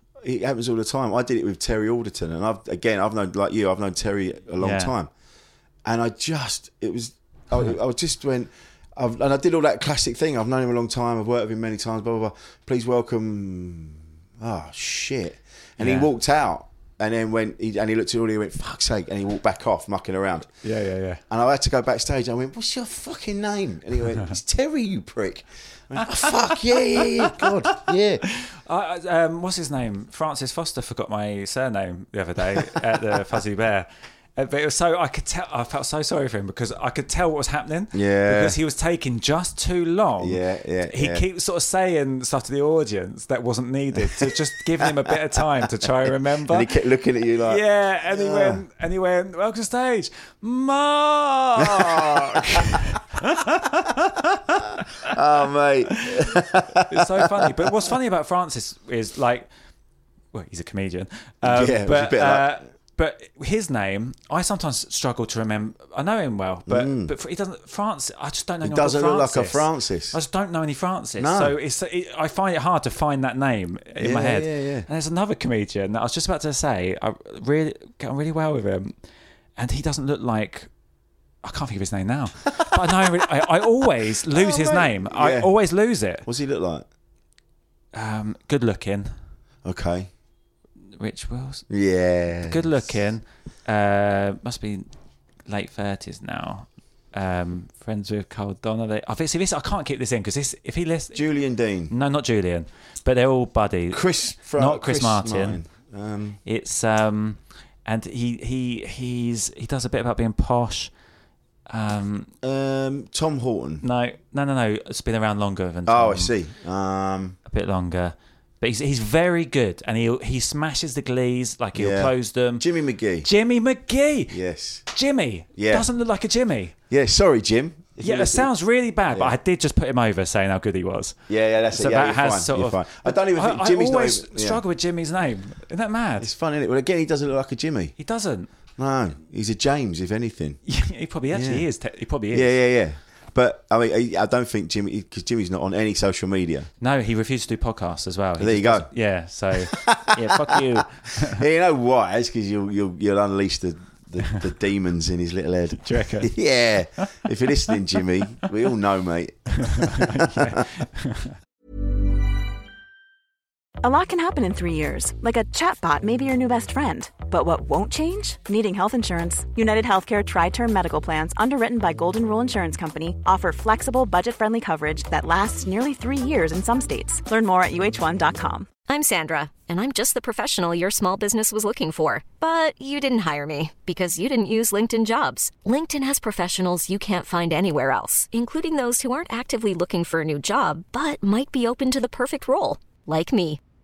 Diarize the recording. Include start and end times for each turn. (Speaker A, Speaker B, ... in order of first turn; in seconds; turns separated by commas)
Speaker A: 0.2-5.1, Speaker B: 4.6-4.9, Speaker A: 5.8-20.5, Speaker B: 15.8-16.1, Speaker B: 20.6-21.2, Speaker A: 21.3-28.2, Speaker B: 26.2-46.7, Speaker A: 37.9-38.6, Speaker A: 40.2-41.2, Speaker A: 44.0-48.6, Speaker B: 47.4-55.2, Speaker A: 51.6-52.8, Speaker A: 55.0-57.8, Speaker B: 55.9-59.5, Speaker B: 60.3-79.0, Speaker A: 61.4-62.5, Speaker A: 66.7-67.1, Speaker A: 68.6-70.2, Speaker A: 71.2-71.5, Speaker A: 74.0-74.9, Speaker B: 79.6-80.7, Speaker B: 81.4-86.3, Speaker A: 84.3-85.5, Speaker A: 86.2-86.9, Speaker B: 87.9-89.1, Speaker A: 89.6-90.1, Speaker B: 91.0-91.7, Speaker A: 91.7-92.9, Speaker B: 92.4-94.9, Speaker B: 95.5-101.2, Speaker A: 101.1-101.9, Speaker B: 101.9-105.6, Speaker A: 103.9-106.4, Speaker B: 106.5-110.9, Speaker B: 111.7-112.3, Speaker A: 112.4-113.8, Speaker B: 113.8-116.3, Speaker A: 115.9-117.4, Speaker B: 117.5-122.7, Speaker A: 121.8-123.3, Speaker B: 123.2-124.4, Speaker A: 124.3-124.8, Speaker B: 124.9-126.7, Speaker A: 125.6-125.9, Speaker A: 126.9-128.5, Speaker B: 128.0-131.2, Speaker A: 129.1-129.3, Speaker A: 131.3-134.6, Speaker B: 131.7-136.3, Speaker A: 136.2-137.9, Speaker B: 138.0-138.5, Speaker A: 138.8-140.6, Speaker B: 140.7-142.5, Speaker A: 141.3-141.7, Speaker A: 142.3-146.7, Speaker B: 146.8-151.4, Speaker A: 148.4-148.9, Speaker A: 149.6-160.7, Speaker B: 155.8-156.3, Speaker B: 159.6-161.4, Speaker C: 163.8-178.7, Speaker D: 178.9-193.6